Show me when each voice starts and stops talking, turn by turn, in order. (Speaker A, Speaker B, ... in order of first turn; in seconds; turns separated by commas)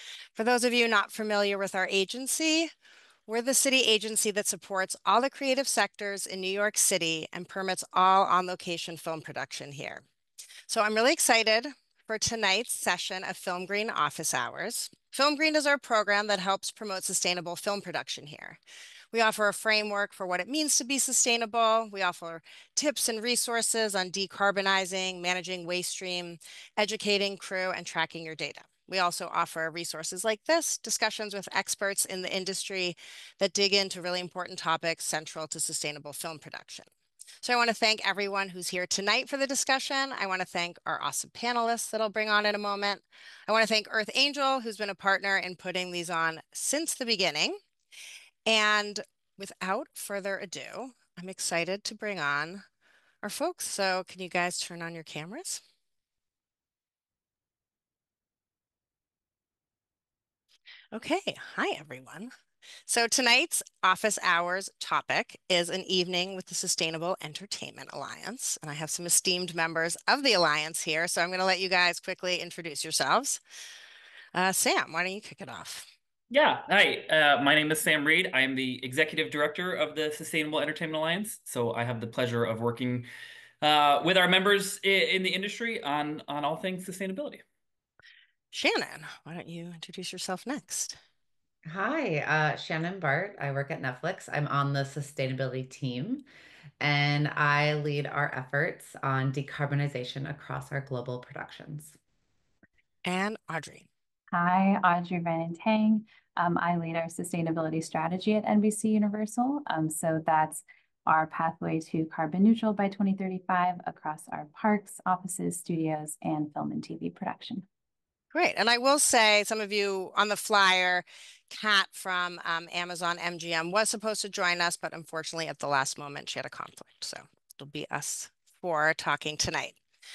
Speaker A: 0.3-2.7, Speaker A: 3.3-10.0, Speaker A: 10.7-18.6, Speaker A: 19.1-36.9, Speaker A: 37.4-47.6, Speaker A: 48.5-52.6, Speaker A: 53.2-55.6, Speaker A: 60.9-62.3, Speaker A: 62.9-73.4, Speaker A: 74.3-75.9, Speaker B: 76.3-83.1, Speaker B: 83.6-87.4, Speaker A: 88.5-91.0, Speaker C: 91.7-96.2, Speaker C: 96.8-102.0, Speaker A: 103.0-103.9, Speaker D: 104.3-117.7, Speaker A: 118.3-129.8